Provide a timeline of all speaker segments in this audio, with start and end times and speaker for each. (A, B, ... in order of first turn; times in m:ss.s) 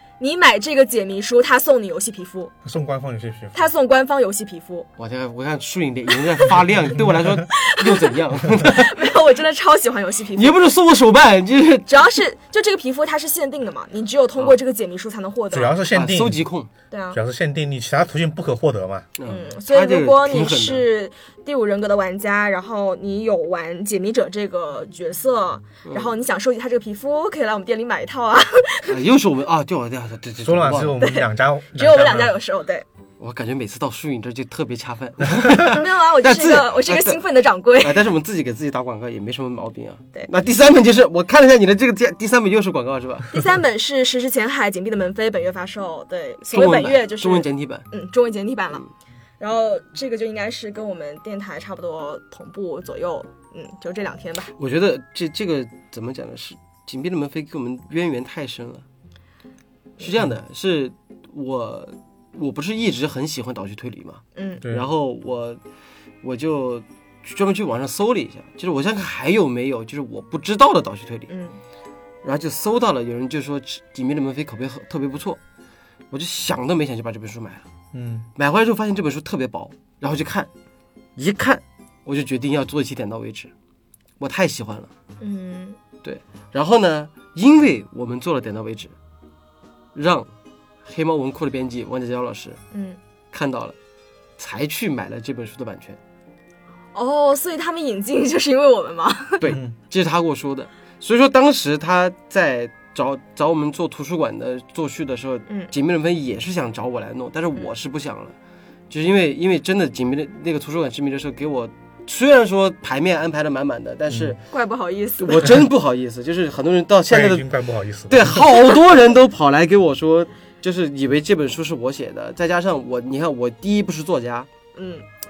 0:00.2-0:02.5 A
0:02.6-0:03.7 B
0:03.5-0:04.9 A
0:05.0-0:09.0 C
0:07.5-0:10.6 A
0:10.4-0:11.9 C
0:11.9-0:15.8 A
0:15.5-0:16.4 B
0:15.9-0:16.7 C
0:16.9-0:17.2 A
0:17.1-0:19.1 B
0:19.2-0:20.8 C
0:19.3-0:29.0 A
0:25.8-0:26.1 C
0:28.9-0:31.0 C
0:30.4-0:32.4 B
0:31.0-0:32.8 A
0:33.2-0:37.2 C
0:35.5-0:38.1 A
0:37.8-0:43.4 C
0:43.3-0:48.8 A
0:46.5-0:47.9 C
0:49.4-0:54.5 A
0:54.6-0:58.8 C
1:00.0-1:05.6 C
1:04.4-1:04.6 A
1:06.2-1:11.3 C
1:11.3-1:11.6 A
1:12.2-1:15.4 C
1:16.1-1:17.6 C
1:17.9-1:18.3 B
1:18.4-1:20.5 C
1:21.2-1:23.5 C
1:24.2-1:24.9 C
1:25.2-1:25.8 A
1:26.0-1:28.9 C
1:30.0-1:30.3 C
1:30.8-1:32.6 C
1:32.7-1:33.0 A
1:33.3-1:33.8 C
1:34.4-1:36.0 C
1:37.0-1:39.5 A
1:39.4-1:48.4 C
1:48.9-1:54.4 C
1:54.1-1:54.4 B
1:54.5-1:55.6 A
1:55.2-1:57.5 C
1:57.1-1:58.4 B
1:58.1-2:04.5 C
2:04.8-2:05.1 A